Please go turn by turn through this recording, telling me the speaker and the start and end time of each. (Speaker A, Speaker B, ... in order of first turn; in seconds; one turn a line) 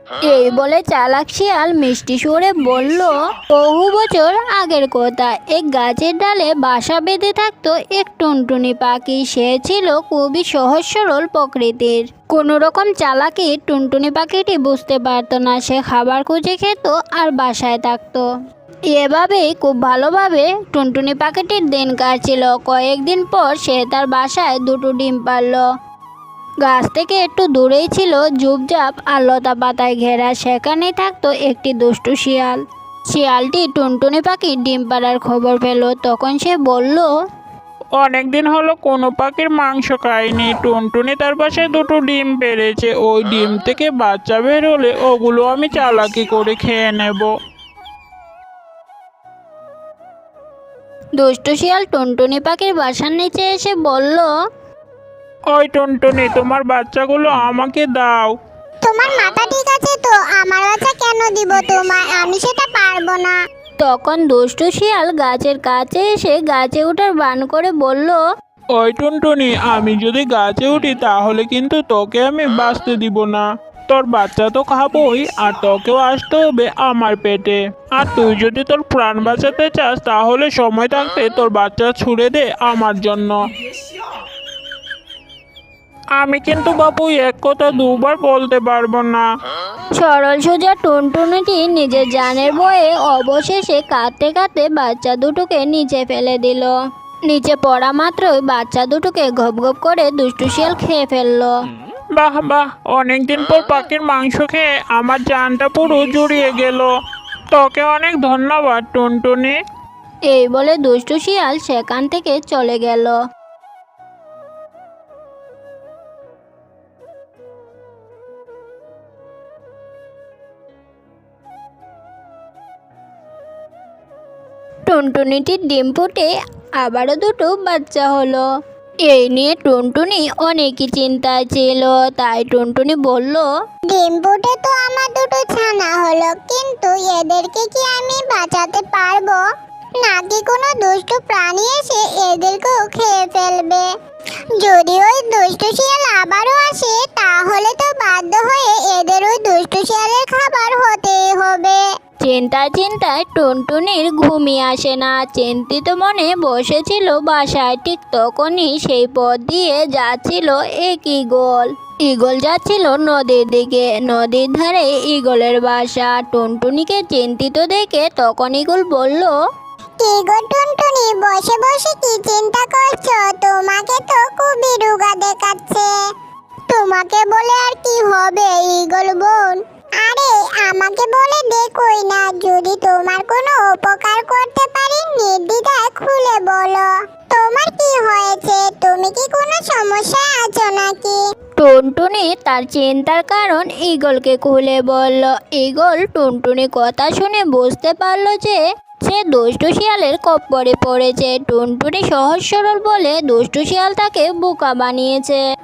Speaker A: 0.3-18.2
Speaker A: 18.9-25.6
Speaker A: 26.6-32.6
Speaker A: 33.1-37.1
Speaker B: 38.0-47.3
Speaker A: 51.2-54.3
Speaker B: 55.5-58.3
Speaker C: 58.8-63.4
Speaker A: 63.8-68.2
Speaker B: 68.8-83.4
Speaker B: 86.2-89.3
Speaker A: 90.0-96.7
Speaker A: 97.3-101.5
Speaker B: 102.2-106.9
Speaker B: 107.5-109.6
Speaker A: 110.3-113.2
Speaker A: 124.9-126.3
Speaker A: 126.8-128.4
Speaker A: 129.1-133.5
Speaker C: 133.9-139.4
Speaker C: 140.0-143.9
Speaker C: 144.6-151.8
Speaker A: 152.2-169.3
Speaker C: 170.0-175.9
Speaker C: 176.7-191.2
Speaker A: 191.6-205.4